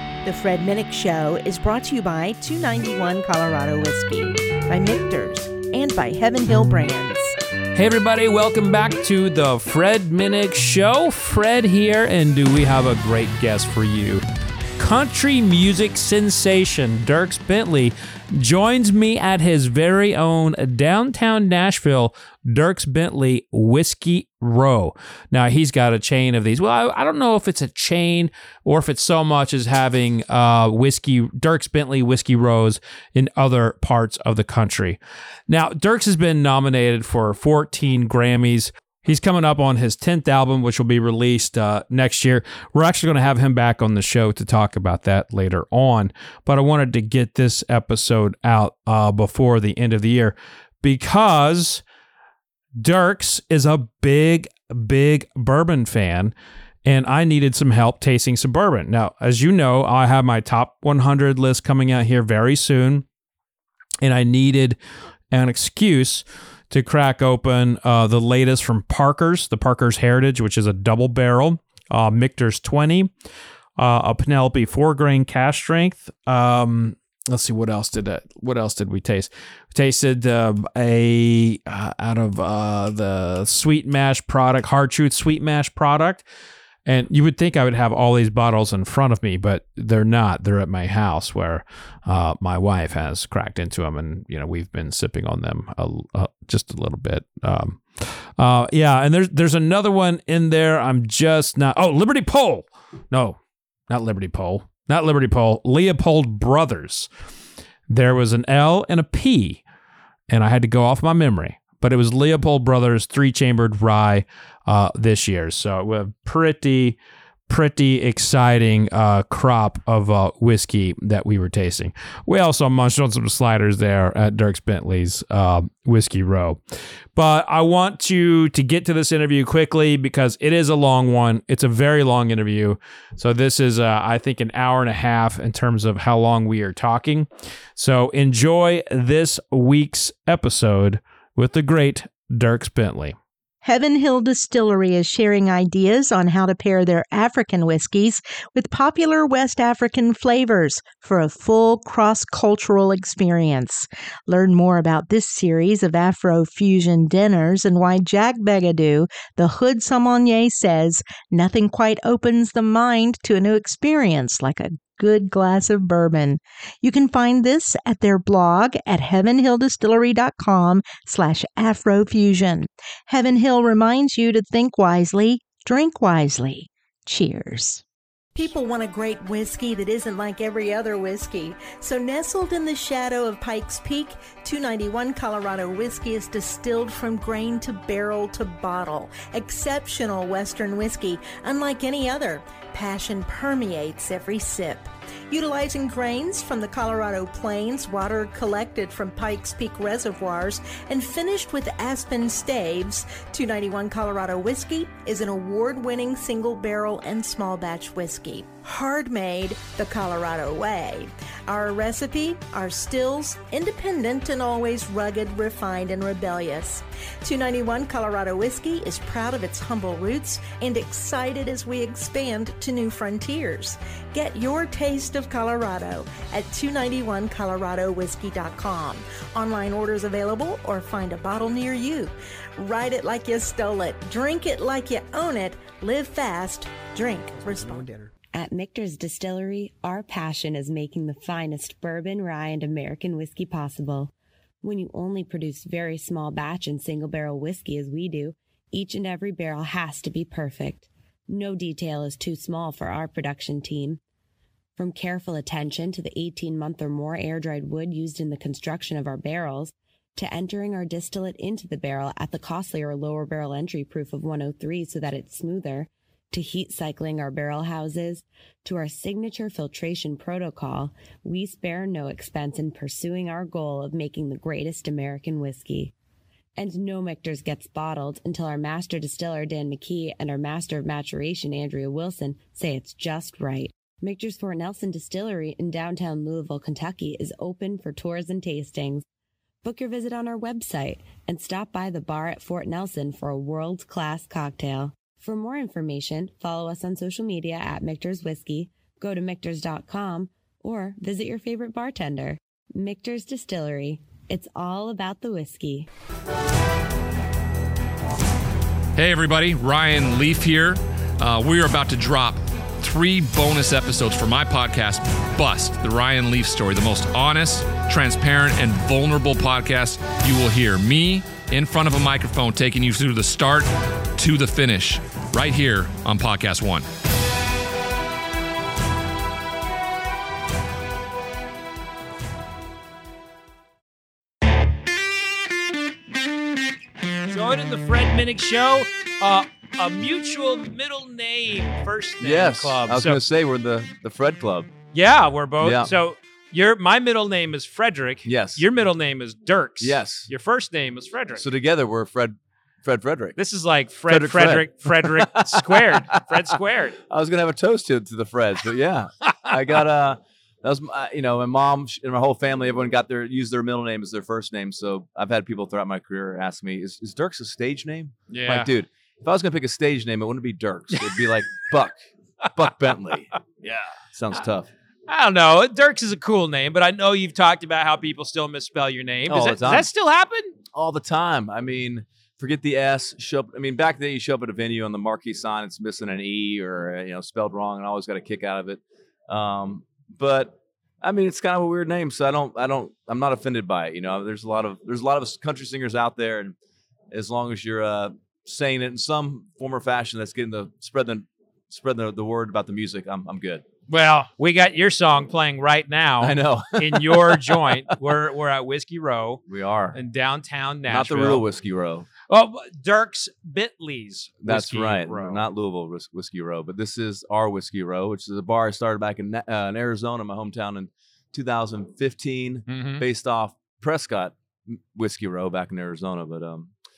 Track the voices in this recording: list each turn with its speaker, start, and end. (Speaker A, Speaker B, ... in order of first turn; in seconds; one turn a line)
Speaker A: 0.2-7.4
Speaker B: 7.7-14.2
Speaker B: 14.8-51.8
Speaker B: 52.8-56.3
Speaker B: 56.8-63.0
Speaker B: 64.0-64.8
Speaker B: 65.3-73.1
Speaker B: 73.8-86.2
Speaker B: 86.8-103.4
Speaker B: 103.9-107.1
Speaker B: 107.9-109.6
Speaker B: 110.3-117.0
Speaker B: 117.5-143.2
Speaker A: 143.6-177.8
Speaker A: 178.3-238.1
Speaker C: 238.3-254.0
Speaker C: 254.8-275.9
Speaker C: 276.6-289.0
Speaker C: 289.6-305.9
Speaker D: 308.9-326.9
Speaker B: 337.3-343.2
Speaker E: 342.2-344.7
Speaker B: 344.9-351.4
Speaker E: 345.6-345.9
Speaker E: 348.2-348.6
Speaker E: 349.8-350.3
Speaker E: 351.3-353.4
Speaker B: 353.4-357.0
Speaker E: 354.1-356.5
Speaker E: 357.1-372.0
Speaker B: 368.3-368.7
Speaker E: 372.5-373.4
Speaker E: 374.1-374.7
Speaker B: 375.1-380.6
Speaker E: 379.3-379.9
Speaker E: 380.7-396.5
Speaker E: 397.1-403.6
Speaker B: 403.9-409.4
Speaker E: 406.2-407.9
Speaker E: 409.5-410.0
Speaker B: 409.9-411.4
Speaker E: 410.9-412.1
Speaker B: 412.3-415.4
Speaker E: 414.4-426.7
Speaker B: 422.7-423.0